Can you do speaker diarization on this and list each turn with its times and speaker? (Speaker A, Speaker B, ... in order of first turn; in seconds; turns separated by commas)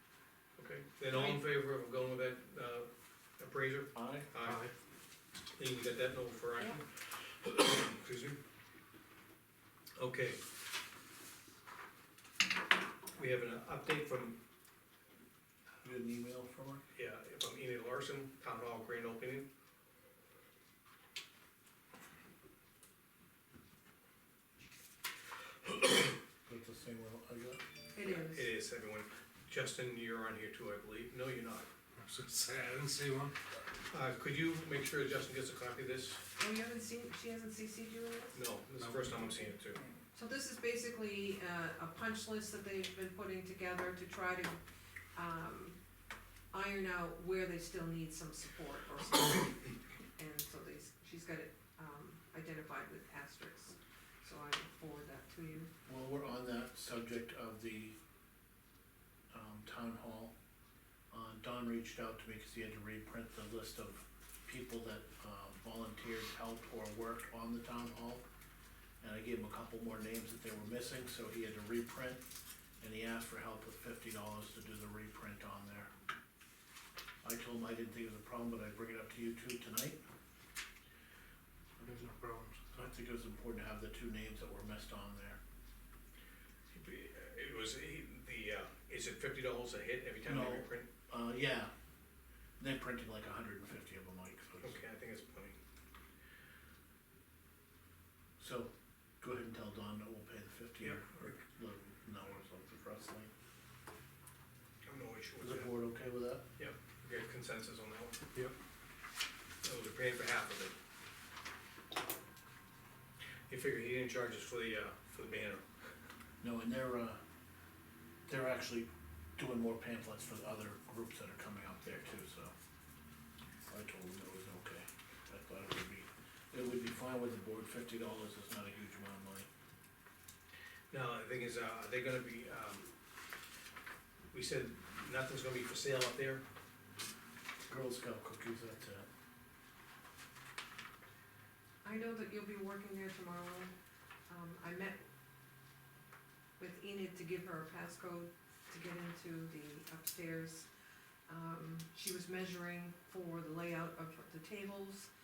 Speaker A: 0.6-2.9, Speaker B: 1.1-1.4, Speaker A: 3.4-4.7, Speaker C: 3.9-4.3, Speaker D: 4.4-4.7, Speaker A: 5.6-8.4, Speaker A: 10.0-10.4, Speaker A: 13.2-14.4, Speaker C: 15.8-16.8, Speaker A: 16.9-19.5, Speaker C: 26.5-27.6, Speaker B: 27.9-28.5, Speaker A: 28.0-31.7, Speaker D: 32.0-33.3, Speaker A: 33.9-36.2, Speaker B: 36.4-38.4, Speaker A: 38.3-39.8, Speaker B: 40.1-44.6, Speaker B: 45.1-45.8, Speaker B: 46.5-55.7, Speaker C: 55.9-58.0, Speaker C: 59.3-60.3, Speaker C: 61.1-68.2, Speaker C: 69.0-72.2, Speaker C: 72.8-75.9, Speaker C: 77.2-80.0, Speaker D: 81.8-82.7, Speaker C: 82.7-85.4, Speaker A: 86.7-90.9, Speaker C: 90.2-91.7, Speaker C: 92.6-94.8, Speaker A: 94.6-95.6, Speaker C: 98.4-103.3, Speaker A: 100.8-101.3, Speaker A: 104.8-105.7, Speaker C: 105.4-106.5, Speaker A: 106.6-108.3, Speaker A: 109.6-110.8, Speaker A: 113.5-115.6, Speaker C: 116.4-117.2, Speaker C: 118.3-122.5, Speaker C: 123.7-129.5, Speaker A: 130.9-132.9, Speaker A: 134.3-136.4, Speaker C: 137.7-139.1, Speaker B: 141.8-143.7, Speaker B: 144.3-145.0, Speaker B: 146.6-150.7, Speaker B: 151.3-155.1